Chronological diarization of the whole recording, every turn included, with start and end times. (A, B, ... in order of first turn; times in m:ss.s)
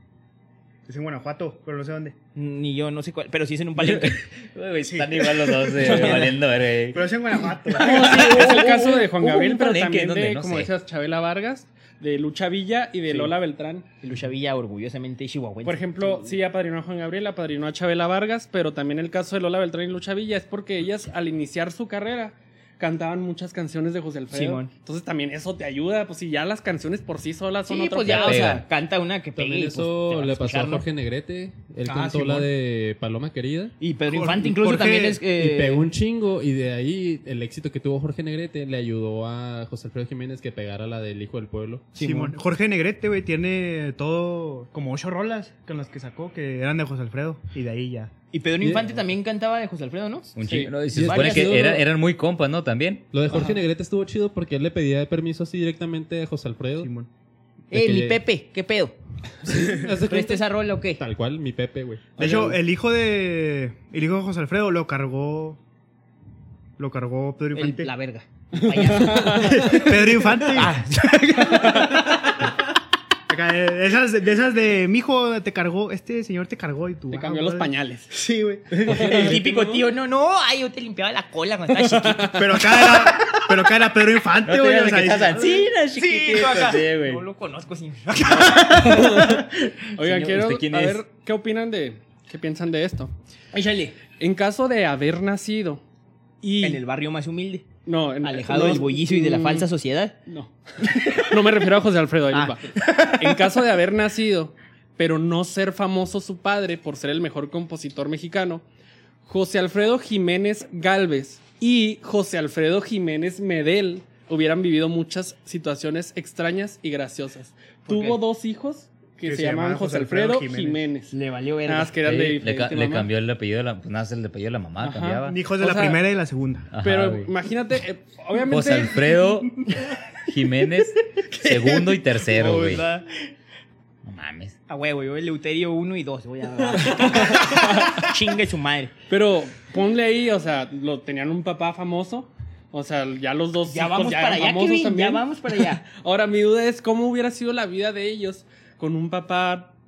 0:00.8-0:02.2 A
0:02.3-0:04.3 B
0:03.8-0:07.1 C
0:04.8-0:05.3 A
0:05.8-0:06.2 B
0:05.8-0:06.1 A
0:06.9-0:08.1 A
0:07.7-0:08.7 B
0:07.8-0:10.7 C
0:07.8-0:13.9 D
0:13.1-0:13.3 B
0:14.0-0:16.4 B
0:15.6-0:28.5 D
0:24.3-0:24.7 B
0:27.6-0:30.8 B
0:28.0-0:28.6 C
0:29.4-0:33.7 E
0:31.8-0:32.5 A
0:33.8-0:35.9 B
0:34.1-0:35.2 A
0:35.3-0:41.9 E
0:41.9-0:42.4 B
0:42.0-0:48.1 A
0:48.3-0:50.4 B
0:48.6-0:49.0 E
0:50.4-0:53.1 C
0:50.4-0:50.7 D
0:50.8-0:51.8 E
0:51.0-0:51.8 B
0:53.1-0:56.9 E
0:53.3-0:53.6 D
0:56.8-0:57.1 A
0:57.7-0:58.2 E
0:57.7-0:58.9 B
0:59.4-1:02.5 E
0:59.5-1:01.0 B
1:02.2-1:05.6 A
1:06.8-1:07.9 A
1:07.5-1:12.4 B
1:08.6-1:09.8 D
1:09.5-1:10.7 A
1:13.3-1:19.3 A
1:17.1-1:18.1 D
1:18.7-1:23.2 B
1:18.8-1:19.8 D
1:21.7-1:22.5 D
1:22.3-1:25.6 A
1:24.4-1:27.2 C
1:25.4-1:29.7 B
1:28.9-1:29.4 D
1:29.0-1:29.3 A
1:30.0-1:33.1 D
1:30.0-1:31.0 C
1:33.5-1:34.0 B
1:34.2-1:35.8 D
1:36.4-1:36.8 D
1:36.6-1:37.7 B
1:37.8-1:39.7 D
1:38.2-1:40.2 B
1:40.3-1:48.6 D
1:40.8-1:41.5 B
1:42.3-1:43.3 B
1:49.2-2:01.1 D
1:57.8-1:58.2 B
1:59.2-2:00.9 A
2:01.1-2:02.0 B
2:01.6-2:03.1 D
2:02.0-2:05.4 C
2:04.8-2:06.0 D
2:05.2-2:06.7 A
2:06.7-2:07.3 C
2:06.8-2:09.0 D
2:08.4-2:09.7 C
2:10.2-2:12.8 C
2:11.3-2:13.1 B
2:14.0-2:14.6 C
2:14.7-2:18.9 B
2:16.9-2:18.1 D
2:19.1-2:25.3 D
2:23.7-2:25.8 B
2:25.8-2:29.7 D